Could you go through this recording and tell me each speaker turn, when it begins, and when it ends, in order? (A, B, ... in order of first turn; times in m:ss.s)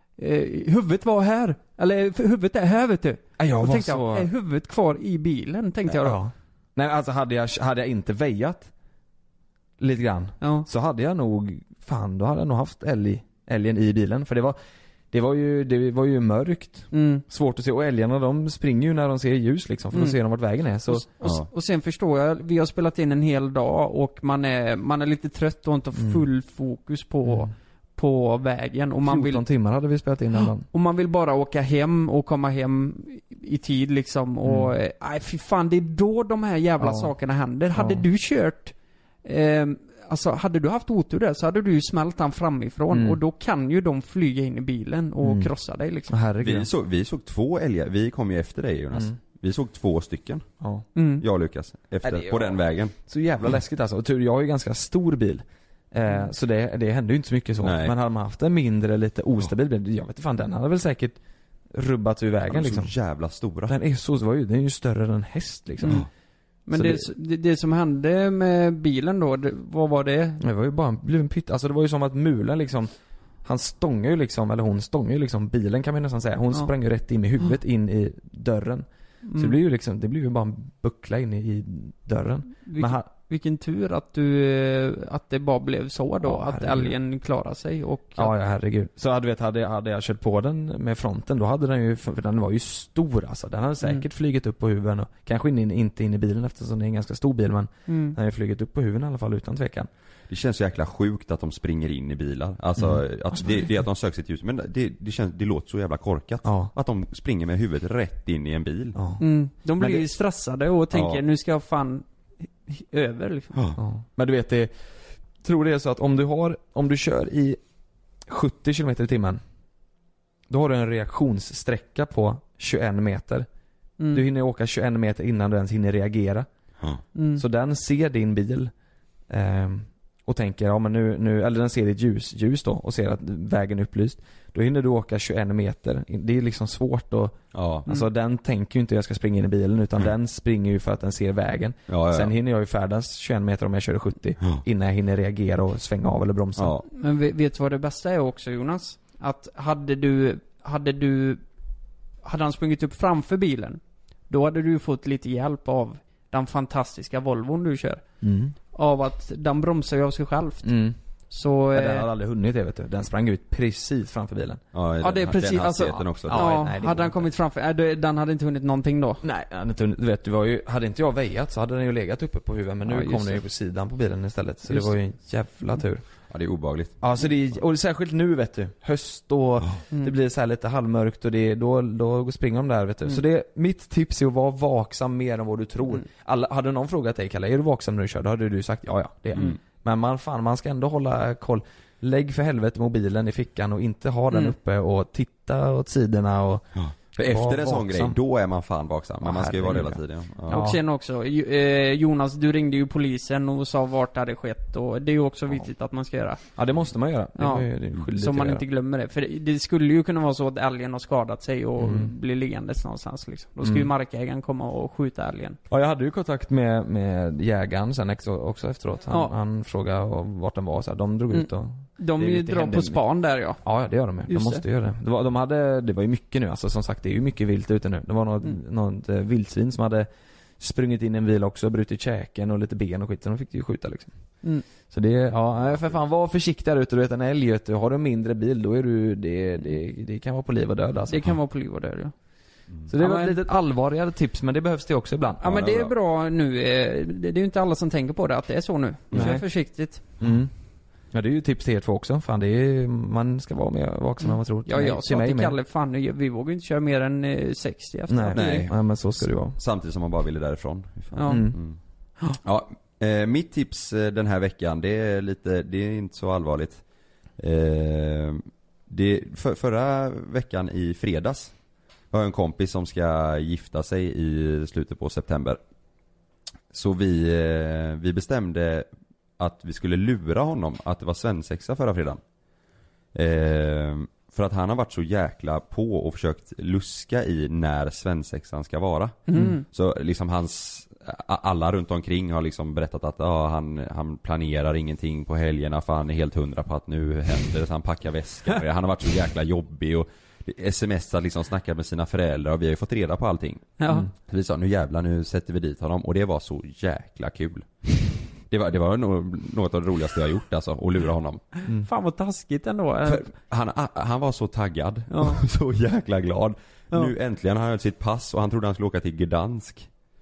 0:00.2-0:06.2 A
0:03.4-0:04.3 B
0:05.9-0:08.7 B
0:09.8-0:14.6 B
0:10.4-0:10.7 A
0:15.1-0:21.1 B
0:16.9-0:17.2 A
0:20.9-0:29.4 A
0:21.2-0:21.5 C
0:26.0-0:26.2 B
0:29.0-0:30.7 B
0:30.6-0:46.1 A
0:34.4-0:34.7 B
0:36.8-0:37.1 B
0:37.7-0:38.0 B
0:42.9-0:43.2 B
0:45.2-0:45.5 B
0:46.1-0:46.7 B
0:46.4-0:50.4 C
0:50.6-0:50.9 B
0:51.0-0:51.2 A
0:51.2-0:52.9 C
0:52.0-1:01.2 B
0:57.6-0:57.9 C
1:01.7-1:02.9 B
1:02.5-1:03.8 C
1:03.7-1:06.0 B
1:06.7-1:10.4 A
1:06.7-1:07.1 B
1:10.4-1:12.9 B
1:13.4-1:23.1 B
1:19.2-1:19.6 A
1:22.6-1:28.3 A
1:26.2-1:27.0 B
1:28.2-1:39.9 B
1:37.9-1:38.2 A
1:40.3-1:49.0 C
1:46.4-1:46.7 B
1:49.0-1:49.2 B
1:49.2-1:52.0 A
1:49.8-1:50.0 B
1:50.9-1:51.2 C
1:52.6-1:53.5 A
1:53.8-1:54.7 B
1:55.4-1:57.6 B
1:58.3-1:59.4 B
2:00.5-2:03.5 B
2:04.0-2:04.2 A
2:04.1-2:06.5 B
2:07.2-2:07.4 A
2:07.4-2:08.7 B
2:09.3-2:26.8 B
2:17.5-2:17.9 C
2:21.9-2:22.3 C
2:26.6-2:26.8 C
2:26.9-2:31.4 A
2:32.2-2:38.0 A
2:38.2-2:38.6 B
2:38.7-2:40.7 A
2:40.6-2:41.0 B
2:41.3-2:42.1 A
2:41.7-2:44.6 B
2:44.7-2:46.6 C
2:45.0-2:49.2 A
2:46.3-2:47.3 B
2:49.2-2:56.0 B
2:52.9-2:53.4 A
2:56.3-2:57.1 C
2:57.0-3:16.7 B
3:16.8-3:20.6 C
3:17.2-3:18.2 B
3:19.2-3:20.8 B
3:20.5-3:26.4 A
3:26.6-3:28.6 B
3:27.4-3:35.6 A
3:31.8-3:32.1 B
3:33.6-3:33.9 B
3:35.7-3:43.0 B
3:39.1-3:39.3 A
3:41.3-3:43.6 A
3:43.6-3:50.1 B
3:44.3-3:44.6 A
3:50.6-3:54.2 B
3:54.7-4:01.3 B
4:01.1-4:02.1 A
4:02.9-4:05.6 B
4:03.0-4:03.4 A
4:05.4-4:10.0 A
4:05.5-4:05.9 C
4:09.1-4:09.4 C
4:09.1-4:09.4 B
4:10.2-4:10.5 B
4:11.1-4:15.6 B
4:14.2-4:18.7 A
4:18.1-4:19.6 B
4:18.4-4:18.8 C
4:19.5-4:21.8 C
4:21.1-4:21.5 A
4:21.3-4:21.6 B
4:22.4-4:26.8 C
4:27.4-4:31.5 C
4:32.1-4:35.6 C
4:36.7-4:38.9 C
4:39.4-4:42.2 C
4:43.1-5:07.9 C
4:49.3-4:49.6 A
5:03.8-5:04.1 A
5:08.5-5:11.5 C
5:11.7-5:13.3 A
5:13.0-5:19.9 C
5:15.1-5:15.4 A